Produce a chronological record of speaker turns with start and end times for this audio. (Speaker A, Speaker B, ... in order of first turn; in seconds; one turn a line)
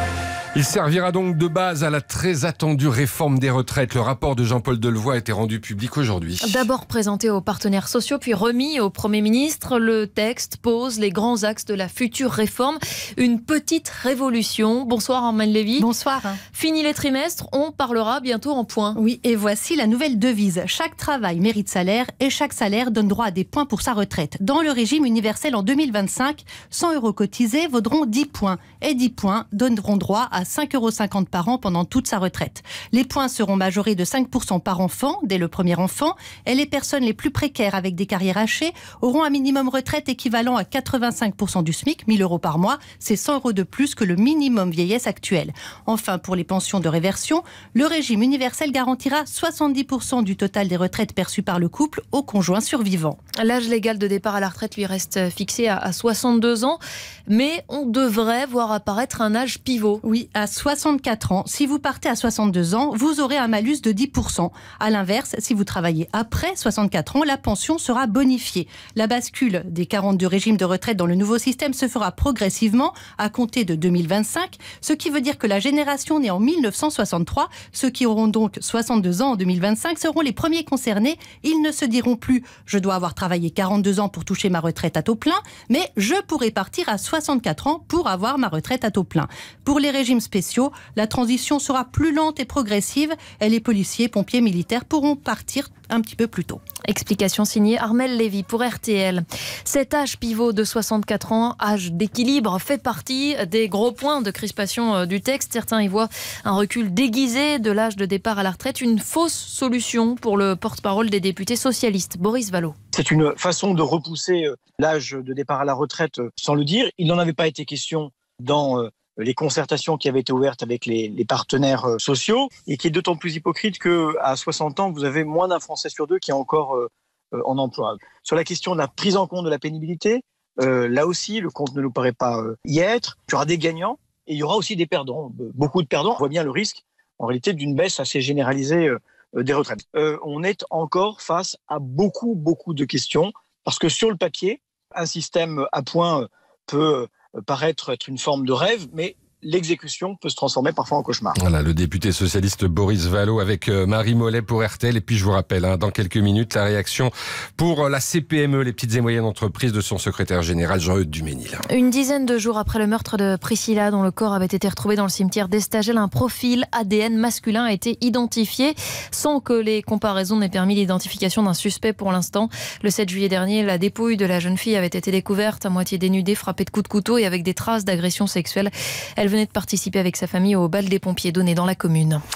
Speaker A: 0.5-6.6
Speaker B: 6.4-15.9
Speaker C: 15.8-16.4
Speaker B: 16.5-19.0
Speaker C: 18.9-53.2
Speaker B: 53.4-60.0
Speaker C: 60.0-96.6
Speaker B: 96.9-112.7
Speaker D: 112.9-151.3
Speaker A: 151.3-161.6
Speaker B: 161.7-182.2